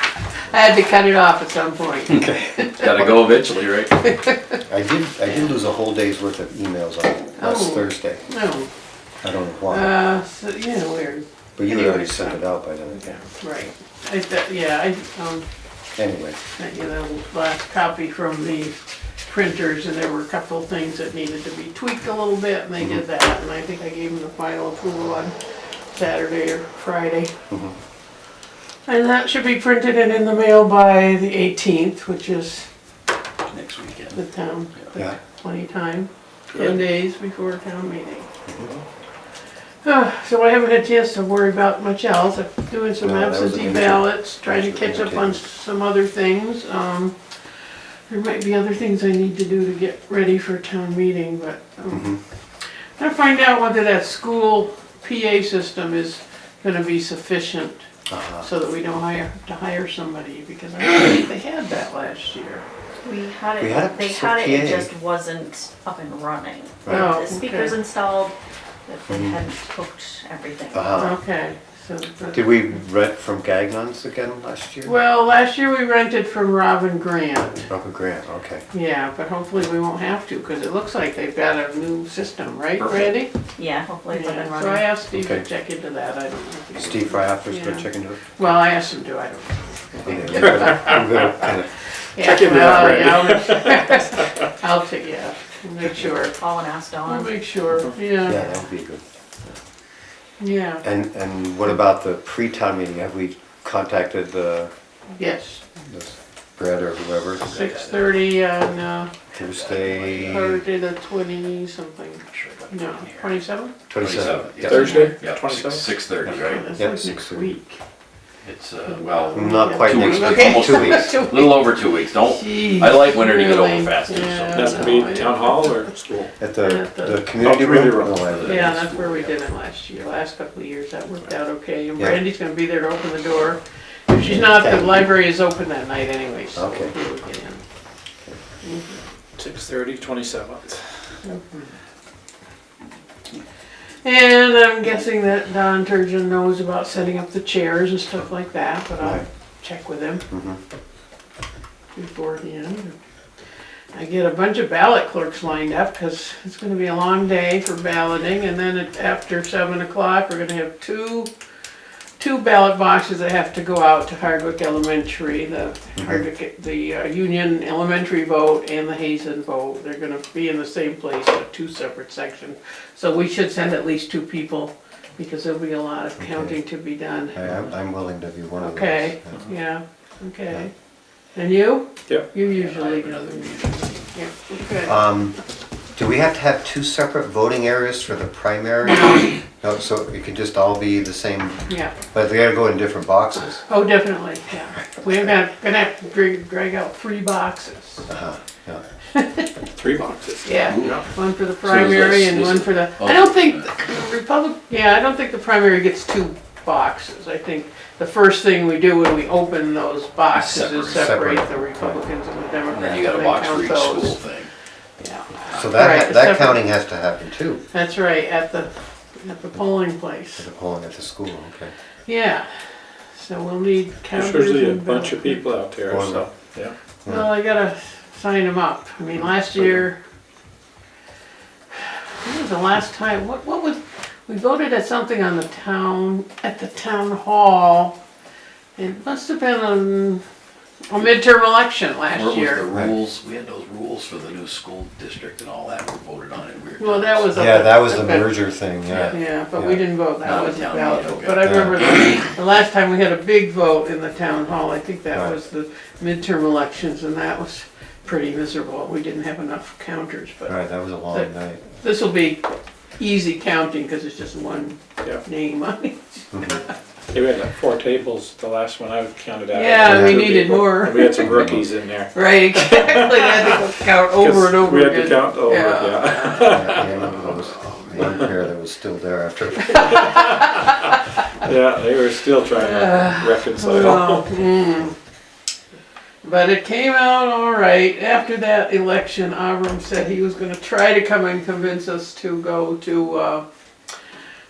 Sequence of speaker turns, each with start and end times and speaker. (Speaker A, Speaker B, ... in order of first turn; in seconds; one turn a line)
Speaker A: 0.5-2.9
Speaker B: 2.2-3.1
Speaker C: 2.7-4.0
Speaker A: 4.0-4.5
Speaker B: 4.7-8.3
Speaker A: 7.4-8.7
Speaker B: 9.2-10.0
Speaker A: 9.7-12.4
Speaker B: 11.6-13.2
Speaker A: 12.9-15.4
Speaker B: 15.9-16.4
Speaker A: 16.5-25.3
Speaker A: 25.9-27.3
Speaker B: 27.5-27.7
Speaker A: 28.9-32.7
Speaker C: 33.5-34.2
Speaker A: 34.1-38.3
Speaker B: 38.5-38.8
Speaker A: 39.8-47.2
Speaker B: 43.0-45.4
Speaker A: 48.1-52.2
Speaker B: 51.9-52.2
Speaker A: 53.0-57.9
Speaker B: 58.1-58.5
Speaker A: 58.4-62.6
Speaker D: 63.0-71.0
Speaker B: 63.6-64.9
Speaker B: 66.8-67.1
Speaker A: 66.9-67.8
Speaker B: 69.1-69.4
Speaker B: 70.7-71.2
Speaker A: 70.9-72.8
Speaker B: 72.3-75.0
Speaker A: 74.8-77.7
Speaker B: 77.7-78.6
Speaker A: 78.7-83.3
Speaker C: 82.8-83.1
Speaker D: 83.5-84.8
Speaker A: 84.1-91.0
Speaker B: 85.1-85.4
Speaker B: 86.7-88.3
Speaker B: 90.0-91.7
Speaker E: 90.3-90.8
Speaker A: 92.1-96.3
Speaker E: 92.2-94.3
Speaker D: 96.2-97.3
Speaker A: 97.0-98.5
Speaker B: 98.2-99.0
Speaker A: 100.4-100.8
Speaker B: 100.8-104.7
Speaker A: 105.2-105.6
Speaker B: 105.8-107.5
Speaker C: 107.4-108.2
Speaker A: 107.4-109.1
Speaker B: 109.3-110.6
Speaker C: 109.5-110.5
Speaker A: 110.2-113.7
Speaker C: 112.3-113.4
Speaker B: 113.9-114.8
Speaker C: 113.9-116.7
Speaker E: 114.5-116.0
Speaker A: 114.7-115.1
Speaker A: 116.3-117.8
Speaker B: 116.8-117.5
Speaker C: 118.4-125.1
Speaker A: 118.8-125.8
Speaker B: 119.3-121.3
Speaker E: 124.5-126.3
Speaker B: 126.4-128.7
Speaker A: 126.6-127.2
Speaker E: 127.4-128.3
Speaker C: 128.2-129.3
Speaker A: 128.4-137.6
Speaker B: 134.2-135.1
Speaker B: 136.6-136.9
Speaker A: 138.6-139.0
Speaker E: 139.4-140.8
Speaker A: 141.2-141.7
Speaker A: 144.0-150.2
Speaker B: 149.0-149.2
Speaker B: 150.3-150.6
Speaker A: 151.9-152.9
Speaker A: 153.9-161.3
Speaker A: 162.2-177.4
Speaker B: 166.0-166.2
Speaker B: 176.2-176.6
Speaker B: 177.3-179.4
Speaker A: 178.6-180.7
Speaker A: 181.3-185.0
Speaker C: 182.6-183.5
Speaker B: 184.8-185.4
Speaker B: 185.9-193.6
Speaker A: 191.7-191.9
Speaker A: 193.4-198.1
Speaker B: 198.1-198.8
Speaker A: 199.1-199.5
Speaker E: 199.8-201.0
Speaker A: 200.4-214.2
Speaker C: 200.7-201.0
Speaker C: 201.6-203.7
Speaker C: 210.3-211.0
Speaker B: 210.9-211.9
Speaker C: 212.7-214.5
Speaker A: 215.0-216.6
Speaker B: 215.5-217.6
Speaker A: 217.7-220.4
Speaker B: 220.4-221.7
Speaker A: 222.1-222.4
Speaker A: 223.1-225.5
Speaker E: 224.1-226.7
Speaker B: 225.9-226.3
Speaker B: 227.0-227.3
Speaker A: 227.1-230.0
Speaker A: 231.8-238.0
Speaker A: 238.8-240.2
Speaker A: 240.9-242.6
Speaker C: 242.1-247.3
Speaker A: 246.8-266.6
Speaker B: 247.3-249.8
Speaker C: 250.2-251.5
Speaker B: 251.4-251.8
Speaker B: 260.5-261.8
Speaker B: 266.3-266.6
Speaker E: 267.1-277.1
Speaker A: 269.5-271.3
Speaker B: 269.8-270.2
Speaker B: 271.3-271.6
Speaker A: 272.1-278.1
Speaker B: 276.5-280.1
Speaker A: 279.7-281.2
Speaker E: 280.1-280.6
Speaker E: 281.4-284.3
Speaker A: 282.6-284.9
Speaker A: 286.2-293.4